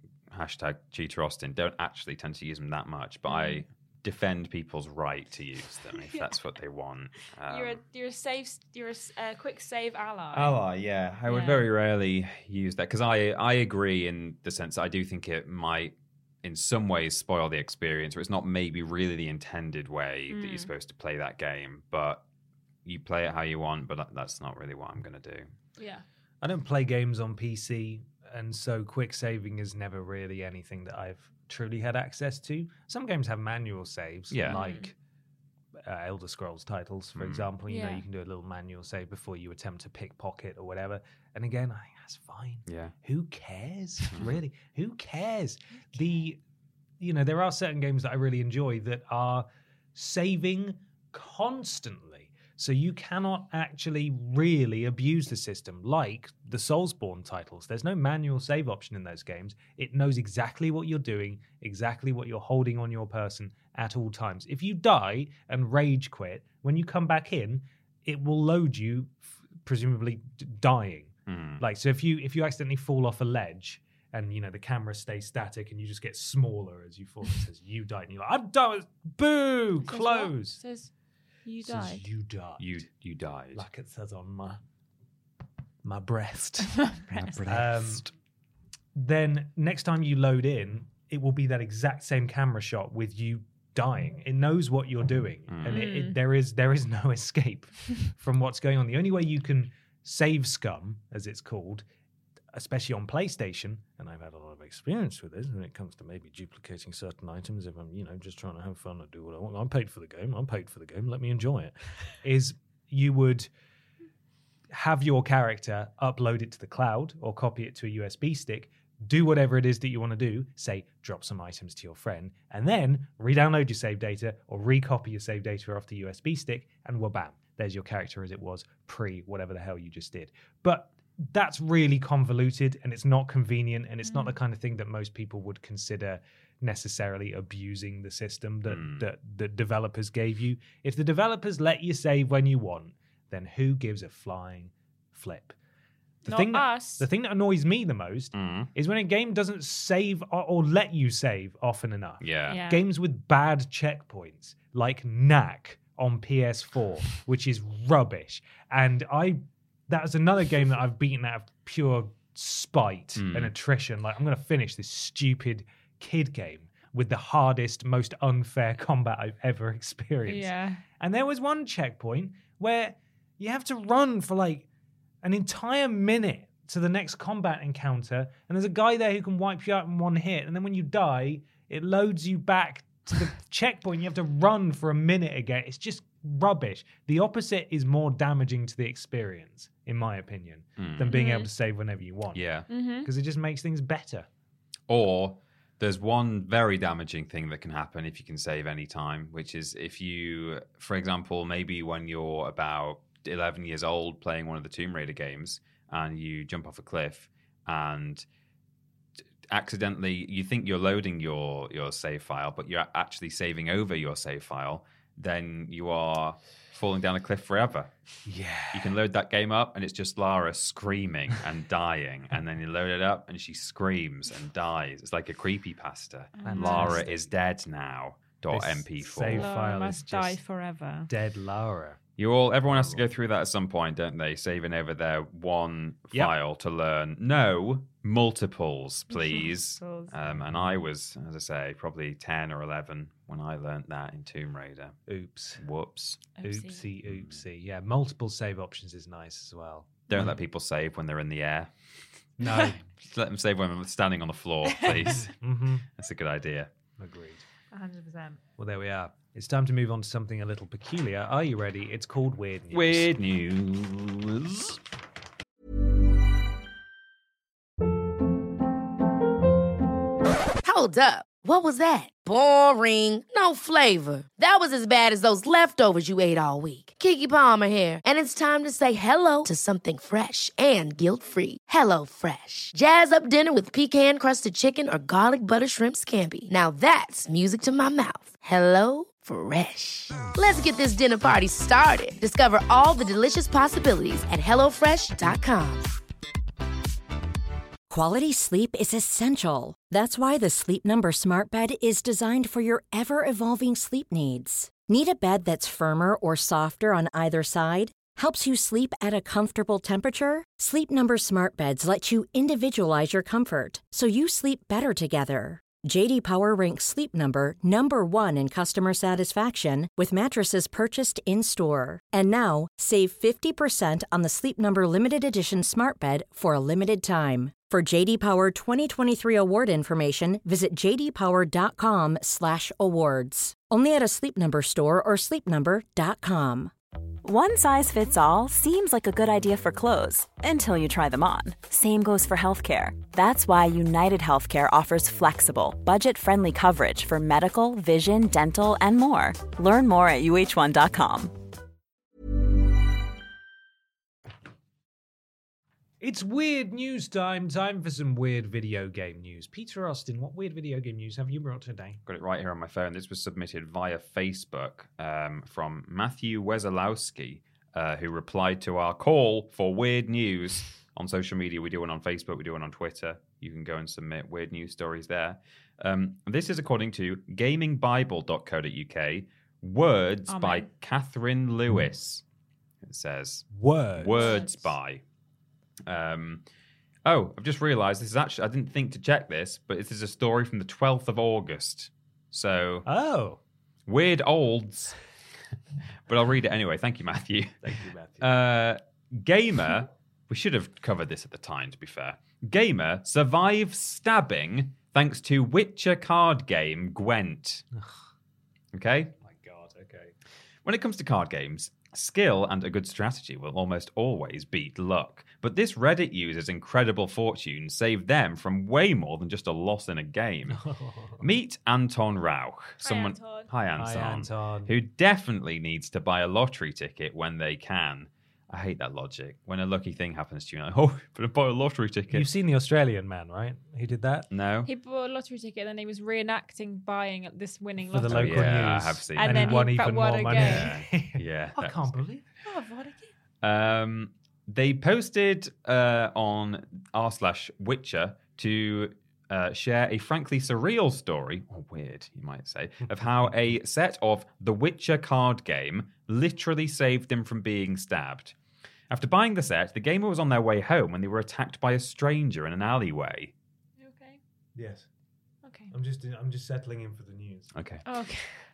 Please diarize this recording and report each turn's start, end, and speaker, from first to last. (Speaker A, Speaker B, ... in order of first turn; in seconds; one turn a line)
Speaker A: 0.3-7.8
Speaker B: 3.3-3.6
Speaker B: 7.5-10.6
Speaker A: 10.3-22.2
Speaker B: 11.3-11.7
Speaker B: 20.3-20.7
Speaker A: 22.9-25.5
Speaker B: 25.8-26.0
Speaker C: 26.4-35.0
Speaker A: 34.3-34.6
Speaker B: 34.5-34.9
Speaker C: 35.8-46.4
Speaker A: 37.2-37.5
Speaker B: 37.7-38.0
Speaker A: 42.7-43.0
Speaker A: 44.1-44.4
Speaker C: 47.0-80.6
Speaker A: 71.3-71.6
Speaker B: 79.9-80.9
Speaker B: 81.5-82.1
Speaker C: 81.6-82.8
Speaker A: 82.6-83.7
Speaker C: 83.5-84.6
Speaker C: 85.8-86.9
Speaker B: 86.8-87.4
Speaker A: 87.1-88.1
Speaker C: 87.5-88.1
Speaker C: 89.0-101.8
Speaker A: 95.5-95.9
Speaker B: 95.7-96.2
Speaker C: 102.5-113.5
Speaker C: 114.7-145.6
Speaker B: 134.0-134.3
Speaker A: 138.7-139.1
Speaker B: 146.2-147.1
Speaker C: 146.3-174.7
Speaker A: 148.3-148.7
Speaker A: 152.2-152.6
Speaker B: 152.5-152.8
Speaker A: 163.2-163.5
Speaker B: 170.3-170.8
Speaker C: 175.2-192.4
Speaker A: 190.8-191.1
Speaker B: 191.1-191.5
Speaker A: 192.3-192.7
Speaker B: 192.7-193.1
Speaker C: 193.0-194.3
Speaker A: 194.9-208.2
Speaker A: 209.5-217.9
Speaker C: 218.3-218.9
Speaker A: 218.7-229.5
Speaker B: 226.4-227.1
Speaker C: 226.4-227.3
Speaker C: 228.5-230.4
Speaker B: 229.3-231.1
Speaker C: 231.1-232.0
Speaker A: 232.2-245.0
Speaker C: 232.7-233.0
Speaker B: 239.1-240.1
Speaker C: 240.3-240.8
Speaker C: 245.1-245.6
Speaker A: 245.6-246.3
Speaker B: 246.4-246.9
Speaker C: 246.4-250.4
Speaker A: 247.1-247.4
Speaker A: 250.1-251.7
Speaker C: 252.4-252.8
Speaker A: 253.0-255.3
Speaker B: 254.7-255.2
Speaker C: 255.2-255.8
Speaker A: 256.0-256.7
Speaker C: 257.0-257.4
Speaker B: 257.7-258.4
Speaker C: 258.6-263.1
Speaker A: 262.7-264.8
Speaker D: 270.6-295.9
Speaker E: 297.9-336.7
Speaker F: 337.2-351.3
Speaker C: 356.0-362.0
Speaker A: 362.1-382.2
Speaker B: 380.3-380.7
Speaker A: 382.8-385.0
Speaker C: 383.5-384.4
Speaker B: 384.1-384.7
Speaker A: 385.9-386.4
Speaker A: 387.1-392.9
Speaker C: 392.9-393.4
Speaker A: 393.9-395.0
Speaker A: 396.1-407.6
Speaker C: 397.6-398.4
Speaker A: 408.7-409.1
Speaker C: 409.2-410.1
Speaker A: 410.6-420.6
Speaker C: 420.5-421.2
Speaker A: 421.2-432.3
Speaker B: 422.8-423.5
Speaker C: 423.8-424.7
Speaker C: 432.1-434.3
Speaker A: 434.3-434.7
Speaker B: 434.6-438.6
Speaker C: 437.9-442.2
Speaker A: 438.1-439.7
Speaker B: 439.2-440.7
Speaker A: 440.3-441.9
Speaker B: 442.4-443.1
Speaker A: 443.4-458.4
Speaker A: 458.9-463.3
Speaker B: 463.8-464.2
Speaker C: 464.6-464.9
Speaker B: 465.4-465.7
Speaker C: 465.7-467.5
Speaker A: 467.6-467.8
Speaker B: 467.9-468.3